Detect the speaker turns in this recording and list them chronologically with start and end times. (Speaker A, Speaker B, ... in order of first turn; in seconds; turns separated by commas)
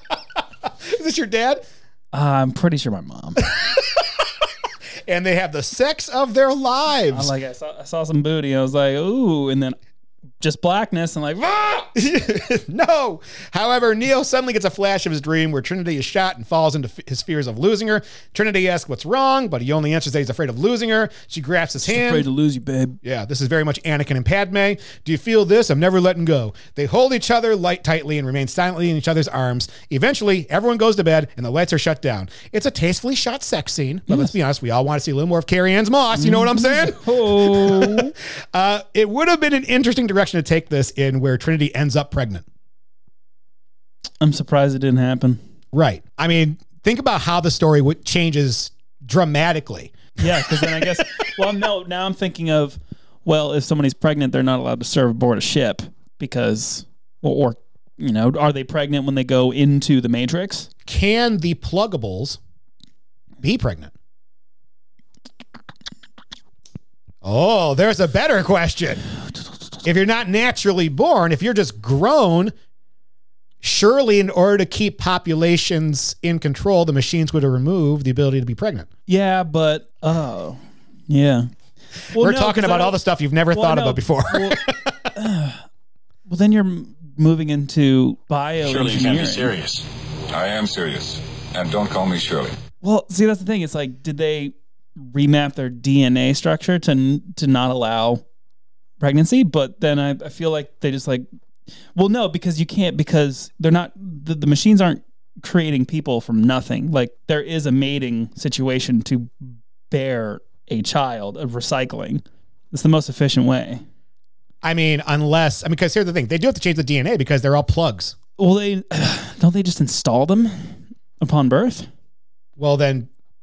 Speaker A: 0.8-1.6, Speaker B: 2.1-3.4, Speaker A: 5.1-7.3, Speaker B: 7.1-9.8, Speaker B: 10.4-11.9, Speaker A: 11.9-22.2, Speaker B: 21.8-23.0, Speaker A: 23.0-42.4, Speaker B: 36.1-38.1, Speaker B: 44.2-45.4, Speaker A: 45.7-50.6, Speaker B: 50.2-60.7, Speaker A: 60.9-62.4, Speaker A: 63.4-63.9, Speaker A: 67.2-69.0, Speaker A: 69.8-72.5, Speaker A: 73.6-78.9, Speaker B: 79.1-81.5, Speaker B: 82.1-83.0, Speaker A: 82.2-84.9, Speaker B: 83.5-84.6, Speaker B: 85.1-85.6, Speaker B: 86.3-89.5, Speaker C: 88.6-92.5, Speaker B: 92.8-98.2, Speaker B: 99.0-101.2, Speaker B: 101.9-113.8, Speaker A: 114.6-118.2, Speaker B: 118.4-121.9, Speaker A: 122.6-123.1